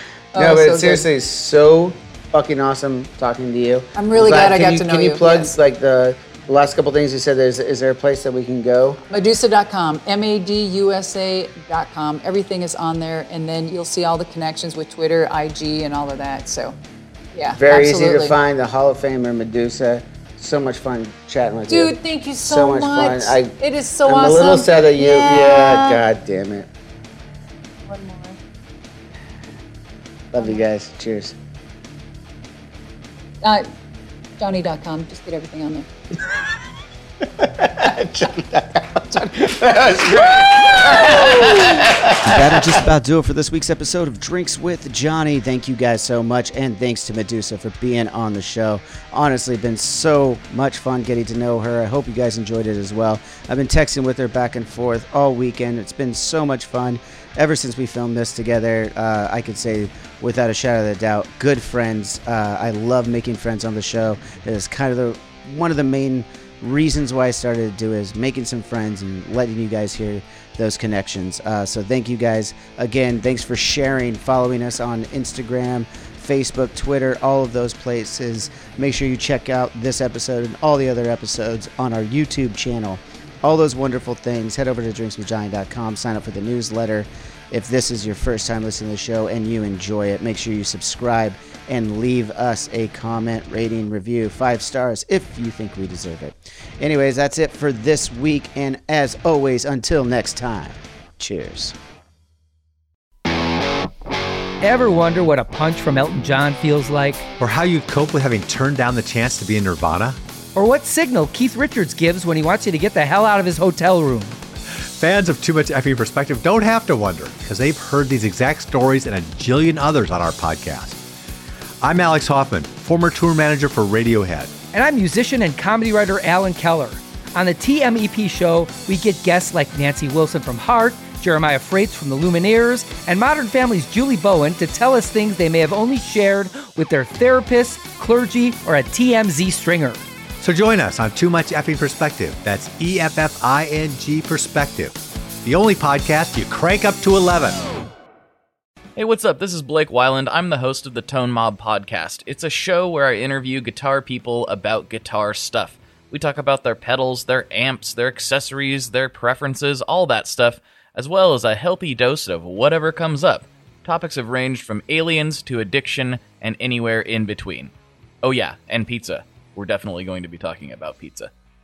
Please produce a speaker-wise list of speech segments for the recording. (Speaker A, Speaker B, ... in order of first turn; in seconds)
Speaker A: 0.3-1.1, 4.0-5.5, 9.1-16.8, 17.3-18.4, 21.7-26.0, 27.8-28.4, 33.4-33.7, 34.4-35.9, 40.2-41.9
Speaker B: 0.3-9.0, 17.5-26.7, 30.3-31.4, 37.2-101.8
Speaker C: 104.6-107.3, 110.5-114.4, 124.7-140.0
Speaker D: 107.4-110.2, 114.8-121.0, 121.8-124.5, 140.4-147.7
Speaker E: 149.0-167.7, 168.2-171.3